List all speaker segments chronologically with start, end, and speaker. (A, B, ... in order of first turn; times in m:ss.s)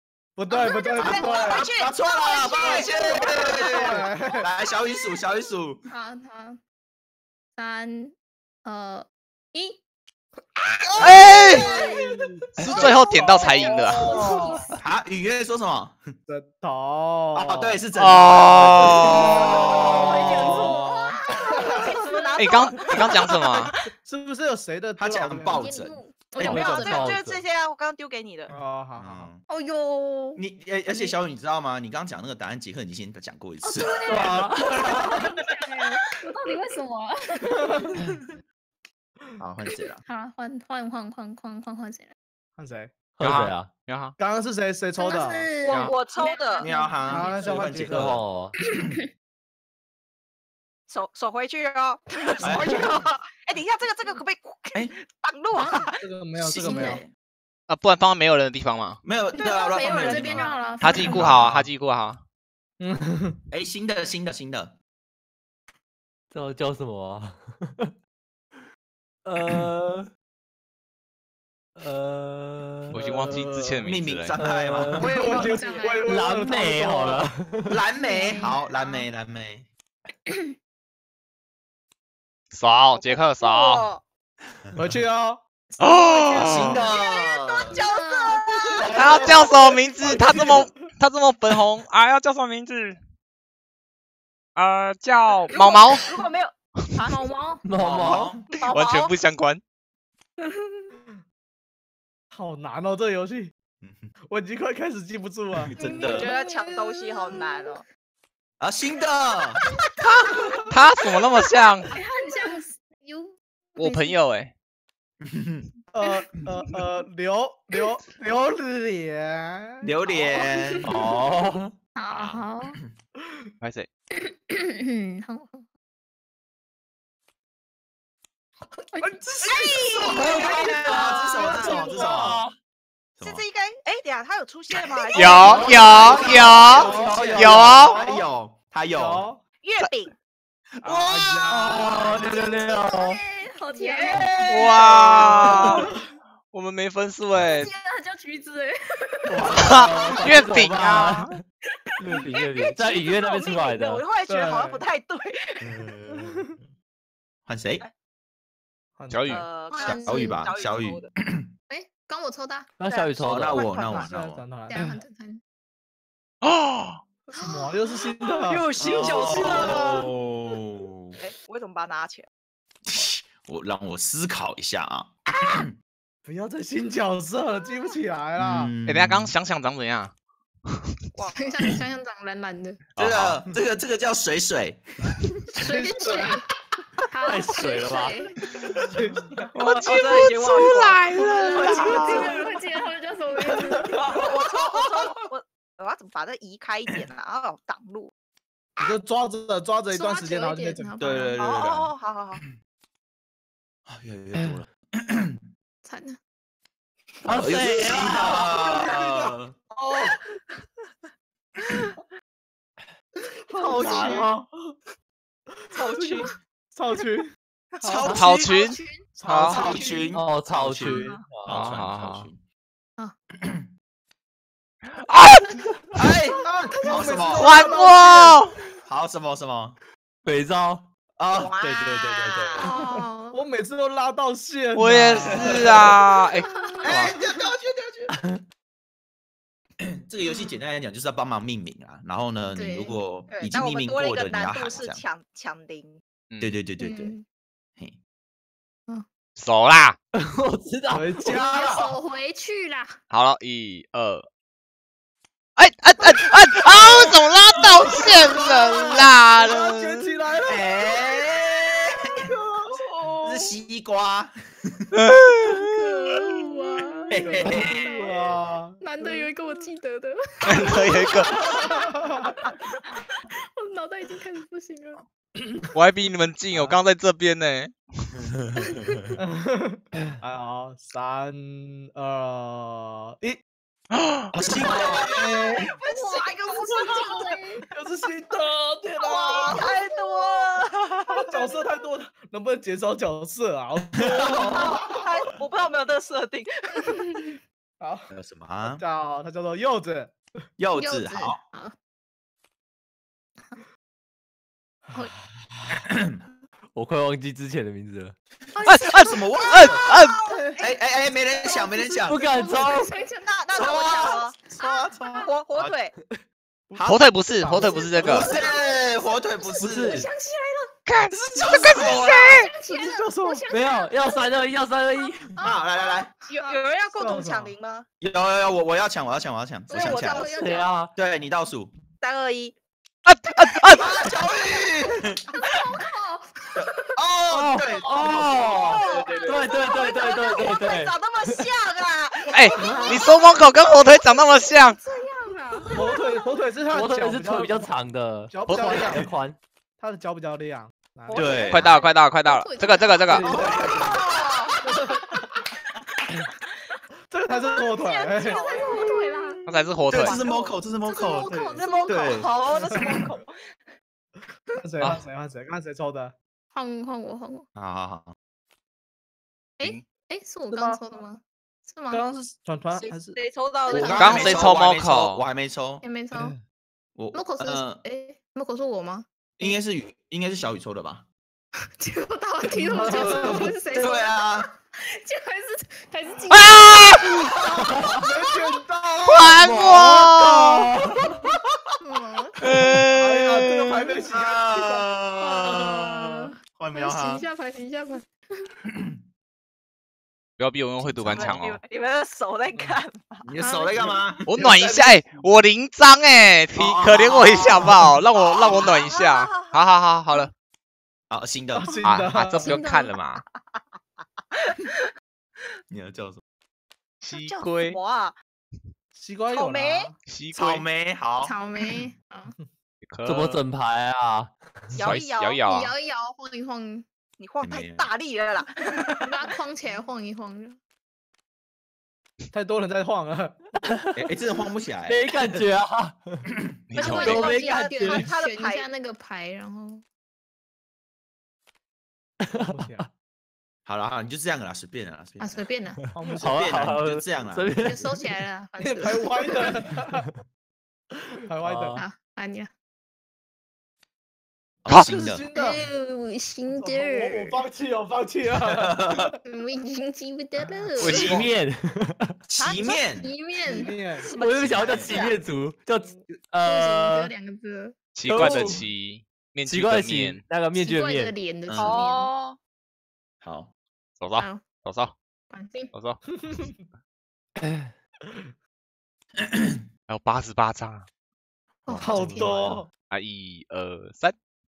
0:00.4-0:01.7 A
0:00.6-0:01.0 B
0:01.0-0:05.8 C
0:01.1-0:01.8 D
0:02.3-0:04.4 B
0:02.4-0:02.9 D
0:02.4-0:04.4 A
0:05.9-0:06.6 B
0:07.6-0:09.8 B
0:10.9-0:11.6 C
0:11.0-0:11.7 E
0:11.0-0:14.6 A
0:11.2-0:14.8 B
0:12.6-0:14.1 E
0:14.8-0:16.1 C
0:16.3-0:17.8 A
0:17.3-0:20.6 C
0:17.9-0:19.7 E
0:19.1-0:22.5 B
0:19.2-0:20.4 F
0:20.1-0:22.0 A
0:22.0-0:22.9 D
0:22.4-0:23.8 E
0:24.0-0:25.7 A
0:25.0-0:26.0 C
0:25.5-0:27.1 B
0:26.4-0:27.4 F
0:26.6-0:28.5 D
0:28.5-0:29.3 A
0:29.0-0:29.4 C
0:29.5-0:31.1 B
0:30.4-0:35.2 C
0:33.6-0:37.9 B
0:34.1-0:35.1 F
0:39.4-0:40.0 C
0:40.0-0:42.1 B
0:42.6-0:42.9 A
0:43.2-0:43.7 F
0:43.2-0:44.1 E
0:44.2-0:45.6 A
0:45.0-0:47.7 B
0:45.6-0:46.6 D
0:45.7-0:46.0 E
0:46.6-0:48.2 C
0:47.1-0:48.2 A
0:47.5-0:48.5 F
0:48.7-0:49.0 B
0:50.9-0:56.0 D
0:52.4-0:52.8 C
0:52.5-0:52.9 A
0:55.5-0:55.8 B
0:56.0-0:57.0 A
0:56.4-0:57.1 C
0:56.5-0:57.0 B
0:57.7-0:59.0 E
0:59.0-1:01.7 C
0:59.3-1:01.2 B
0:59.9-1:00.6 D
1:00.8-1:02.2 E
1:02.8-1:03.4 A
1:03.5-1:04.7 C
1:06.3-1:07.9 F
1:09.2-1:10.1 F
1:11.8-1:13.0 F
1:12.9-1:14.4 E
1:13.0-1:13.8 A
1:13.8-1:15.5 C
1:14.4-1:15.2 F
1:14.9-1:17.2 A
1:15.0-1:16.1 B
1:16.0-1:17.8 F
1:17.7-1:19.7 C
1:18.0-1:19.0 B
1:22.5-1:23.9 E
1:22.9-1:24.0 D
1:24.8-1:25.4 A
1:25.8-1:26.9 E
1:26.3-1:27.8 C
1:27.1-1:28.5 D
1:27.7-1:29.0 B
1:28.8-1:29.6 C
1:28.9-1:33.0 E
1:30.2-1:30.6 A
1:34.6-1:36.2 E
1:35.5-1:37.1 D
1:37.1-1:37.6 B
1:37.6-1:38.3 F
1:37.8-1:38.4 C
1:38.6-1:39.2 D
1:38.7-1:39.6 E
1:40.4-1:40.9 B
1:42.3-1:43.5 A
1:43.8-1:44.1 C
1:44.3-1:45.7 A
1:45.5-1:46.3 C
1:45.7-1:47.8 B
1:46.2-1:47.8 D
1:48.6-1:49.6 C
1:50.0-1:51.9 E
1:51.9-1:54.2 B
1:53.8-1:54.5 E
1:55.2-1:55.7 C
1:55.9-1:59.9 A
1:59.8-2:01.1 C
2:00.9-2:01.7 F
2:01.9-2:02.8 B
2:02.1-2:02.9 C
2:03.6-2:03.9 E
2:04.2-2:05.7 B
2:08.9-2:09.4 B
2:09.0-2:09.4 A
2:09.7-2:12.4 C
2:10.0-2:12.5 F
2:10.2-2:10.6 B
2:11.4-2:11.8 B
2:11.4-2:12.1 A
2:13.2-2:15.5 D
2:15.1-2:18.0 E
2:15.2-2:19.2 C
2:15.3-2:18.2 A
2:16.8-2:17.7 F
2:18.9-2:19.4 A
2:19.6-2:20.1 D
2:20.8-2:22.5 C
2:20.8-2:21.9 A
2:21.5-2:23.2 F
2:22.5-2:24.3 B
2:23.8-2:24.4 D
2:24.1-2:25.8 C
2:24.4-2:25.9 E
2:25.6-2:25.9 A
2:26.5-2:27.7 E
2:27.6-2:30.3 B
2:29.3-2:30.2 A
2:29.5-2:31.3 E
2:30.0-2:31.4 F
2:32.0-2:34.1 F
2:32.8-2:35.6 D
2:34.2-2:34.8 A
2:35.6-2:36.4 C
2:36.1-2:36.6 A
2:37.5-2:37.8 C
2:39.0-2:39.4 A
2:39.1-2:39.5 E
2:39.3-2:41.1 D
2:39.7-2:40.4 B
2:39.8-2:41.5 C
2:41.7-2:42.7 B
2:42.8-2:43.7 F
2:42.9-2:44.1 D
2:43.2-2:44.4 C
2:43.9-2:44.8 A
2:44.7-2:45.4 B
2:46.4-2:47.0 E
2:47.3-2:47.7 B
2:47.4-2:50.1 A
2:48.4-2:49.7 D
2:48.8-2:51.2 C
2:51.2-2:52.3 D
2:52.9-2:55.7 C
2:56.2-2:58.7 A
2:58.4-2:59.3 C
2:58.8-3:00.1 E
3:00.7-3:00.9 E
3:01.2-3:01.6 D
3:01.3-3:02.8 B
3:03.0-3:03.4 E
3:03.0-3:04.8 C
3:05.5-3:06.4 B
3:05.6-3:06.4 A
3:07.1-3:08.4 B
3:07.2-3:08.2 F
3:08.8-3:09.8 A
3:09.6-3:12.2 E
3:09.9-3:11.0 D
3:11.2-3:14.1 B
3:11.4-3:12.3 A
3:11.6-3:12.3 C
3:13.7-3:14.1 A
3:14.2-3:14.7 C
3:14.2-3:18.1 D
3:18.8-3:21.2 A
3:19.9-3:21.4 B
3:21.0-3:22.5 C
3:21.5-3:22.4 D
3:23.9-3:25.4 C
3:25.8-3:26.2 B
3:27.2-3:28.4 F
3:27.3-3:29.6 C
3:28.1-3:30.3 A
3:33.5-3:34.7 A
3:33.7-3:34.3 F
3:35.7-3:36.3 D
3:35.8-3:38.1 A
3:37.8-3:38.6 C
3:38.0-3:39.7 E
3:38.1-3:39.1 B
3:39.1-3:40.2 A
3:39.2-3:42.4 C
3:40.1-3:41.7 F
3:41.5-3:42.3 E
3:43.4-3:43.7 C
3:45.0-3:45.6 E
3:46.0-3:47.7 C
3:46.4-3:47.2 B
3:46.4-3:48.4 A
3:47.4-3:48.6 E
3:48.8-3:49.8 C
3:50.2-3:50.8 F
3:51.2-3:52.7 C
3:51.4-3:52.7 D
3:52.6-3:53.4 B
3:52.8-3:56.0 A
3:54.7-3:57.2 E
3:55.2-3:56.0 C
3:56.4-3:57.1 B
3:56.8-3:58.1 C
3:58.1-3:58.4 F
4:00.0-4:05.0 C
4:00.2-4:00.6 B
4:02.5-4:03.0 B
4:03.3-4:06.0 D
4:06.3-4:06.6 E
4:06.4-4:07.2 C
4:06.8-4:07.2 B
4:09.4-4:10.0 E
4:10.1-4:11.8 F
4:10.9-4:11.7 A
4:11.3-4:12.9 B
4:13.1-4:14.2 E
4:15.6-4:20.1 E
4:17.8-4:21.3 A
4:20.5-4:22.1 C
4:22.2-4:23.2 A
4:23.2-4:24.8 C
4:24.9-4:25.6 E
4:25.4-4:32.6 B
4:27.1-4:27.9 C
4:27.2-4:29.3 A
4:30.4-4:31.3 E
4:33.3-4:35.0 B
4:35.7-4:38.2 E
4:36.5-4:36.8 A
4:39.2-4:43.4 A
4:43.9-4:44.3 E
4:44.3-4:45.7 C
4:44.6-4:44.9 A
4:44.7-4:47.6 B
4:45.8-4:47.2 D
4:47.7-4:49.6 A
4:49.3-4:50.2 B
4:49.4-4:51.2 D
4:51.1-4:55.0 A
4:54.0-4:54.7 C
4:54.3-4:56.9 D
4:56.8-4:57.3 B
4:57.8-4:58.1 A
4:58.1-4:58.8 C
4:58.7-5:00.2 A
5:00.6-5:01.4 C
5:00.7-5:01.7 B
5:05.9-5:06.2 C
5:06.7-5:08.1 F
5:08.6-5:09.4 B
5:08.6-5:10.3 E
5:08.9-5:09.8 C
5:09.7-5:10.4 D
5:10.6-5:12.2 C
5:11.4-5:15.3 B
5:12.1-5:12.9 F
5:13.3-5:15.9 D
5:13.6-5:15.8 C
5:16.7-5:18.2 A
5:16.7-5:20.1 C
5:16.8-5:18.3 E
5:17.6-5:20.7 B
5:19.6-5:20.1 F
5:20.8-5:22.5 E
5:21.3-5:22.2 C
5:21.4-5:23.4 A
5:21.6-5:24.3 B
5:23.5-5:25.3 F
5:25.3-5:26.7 B
5:25.4-5:26.1 C
5:26.3-5:27.8 D
5:26.9-5:27.6 A
5:28.0-5:30.3 C
5:29.7-5:30.7 B
5:29.9-5:30.3 D
5:30.3-5:30.9 F
5:30.9-5:31.7 C
5:32.0-5:32.6 D
5:33.0-5:33.8 E
5:33.7-5:35.2 C
5:35.3-5:36.9 B
5:36.6-5:39.4 C
5:37.3-5:41.5 F
5:38.7-5:42.3 D
5:42.3-5:44.8 E
5:44.7-5:45.9 B
5:45.7-5:47.7 A
5:46.7-5:49.4 F
5:48.3-5:49.1 A
5:49.8-5:51.5 A
5:51.1-5:51.5 D
5:51.1-5:51.7 C
5:51.5-5:53.3 E
5:51.6-5:53.6 B
5:53.2-5:53.9 A
5:53.2-5:54.0 C
5:54.0-5:54.5 D
5:54.6-5:55.2 A
5:57.1-5:58.5 A
5:57.3-5:57.6 B
5:57.8-5:58.9 D
5:58.2-5:59.4 B
5:59.4-6:00.2 E
5:59.9-6:02.3 C
6:00.0-6:00.6 D
6:00.8-6:02.3 B
6:01.6-6:03.4 D
6:02.5-6:03.1 A
6:04.5-6:06.1 A
6:06.5-6:07.4 B
6:07.6-6:08.1 C
6:09.6-6:12.1 B
6:10.5-6:10.8 A
6:11.9-6:13.2 A
6:12.8-6:13.9 D
6:13.7-6:14.6 B
6:13.7-6:15.8 C
6:13.9-6:15.2 E
6:15.8-6:16.4 B
6:17.0-6:17.8 C
6:17.1-6:19.1 B
6:19.4-6:21.1 C
6:21.8-6:28.0 B
6:22.6-6:23.5 A
6:22.9-6:24.5 C
6:26.3-6:27.3 E
6:27.8-6:28.0 F
6:28.0-6:29.4 A
6:29.0-6:30.7 E
6:29.3-6:31.1 F
6:31.8-6:32.4 B
6:32.4-6:34.0 E
6:32.9-6:34.9 A
6:34.1-6:37.2 C
6:35.2-6:38.1 B
6:38.7-6:39.0 C
6:40.4-6:41.6 E
6:40.8-6:41.5 C
6:41.2-6:43.2 D
6:42.5-6:42.8 A
6:43.2-6:44.5 C
6:43.4-6:44.0 B
6:44.3-6:50.3 E
6:44.4-6:45.0 A
6:46.5-6:48.0 C
6:48.1-6:49.5 D
6:51.1-6:51.9 C
6:51.6-6:52.5 A
6:51.8-6:53.2 E
6:52.3-6:52.9 B
6:55.7-6:56.2 C
6:57.0-6:57.8 E
6:57.1-6:58.1 D
6:58.9-6:59.9 A
6:59.3-6:59.9 D
7:00.0-7:00.7 E
7:00.3-7:01.4 C
7:01.2-7:02.3 B
7:02.8-7:03.4 E
7:03.0-7:05.0 F
7:04.7-7:05.7 E
7:04.8-7:05.5 D
7:05.5-7:06.8 B
7:07.2-7:09.0 D
7:07.4-7:07.9 C
7:09.0-7:10.6 B
7:12.3-7:13.4 A
7:13.6-7:14.0 F
7:14.0-7:15.0 C
7:14.9-7:16.2 F
7:16.7-7:17.2 E
7:16.8-7:19.8 B
7:16.9-7:18.1 F
7:17.1-7:18.6 D
7:22.2-7:22.9 F
7:22.5-7:22.9 A
7:23.7-7:25.4 C
7:25.2-7:25.8 B
7:25.9-7:26.4 A
7:26.1-7:27.9 F
7:26.2-7:27.7 C
7:27.6-7:29.5 B
7:28.6-7:30.1 A
7:30.9-7:31.8 A
7:31.4-7:31.8 F
7:31.7-7:32.5 B
7:34.6-7:35.2 C
7:34.8-7:35.6 A
7:35.3-7:37.4 B
7:36.5-7:39.1 A
7:38.4-7:39.1 C
7:39.2-7:41.2 B
7:40.8-7:41.3 E
7:40.8-7:42.2 F
7:42.3-7:43.1 C
7:42.7-7:44.8 B
7:43.4-7:44.1 A
7:44.1-7:47.1 F
7:44.4-7:45.0 C
7:46.4-7:47.7 B
7:47.9-7:50.2 E
7:48.1-7:48.6 F
7:49.4-7:51.1 F
7:50.6-7:52.1 B
7:51.5-7:51.9 C
7:51.6-7:52.4 D
7:53.2-7:53.5 C
7:54.0-7:54.9 E
7:54.2-7:54.4 B
7:55.3-7:55.7 B
7:55.7-7:56.1 E
7:57.4-7:57.7 F
7:59.3-7:59.6 C
7:59.9-8:00.9 E
8:01.6-8:02.3 B
8:01.7-8:02.6 C
8:01.8-8:02.7 A
8:02.0-8:02.5 F
8:02.9-8:04.1 E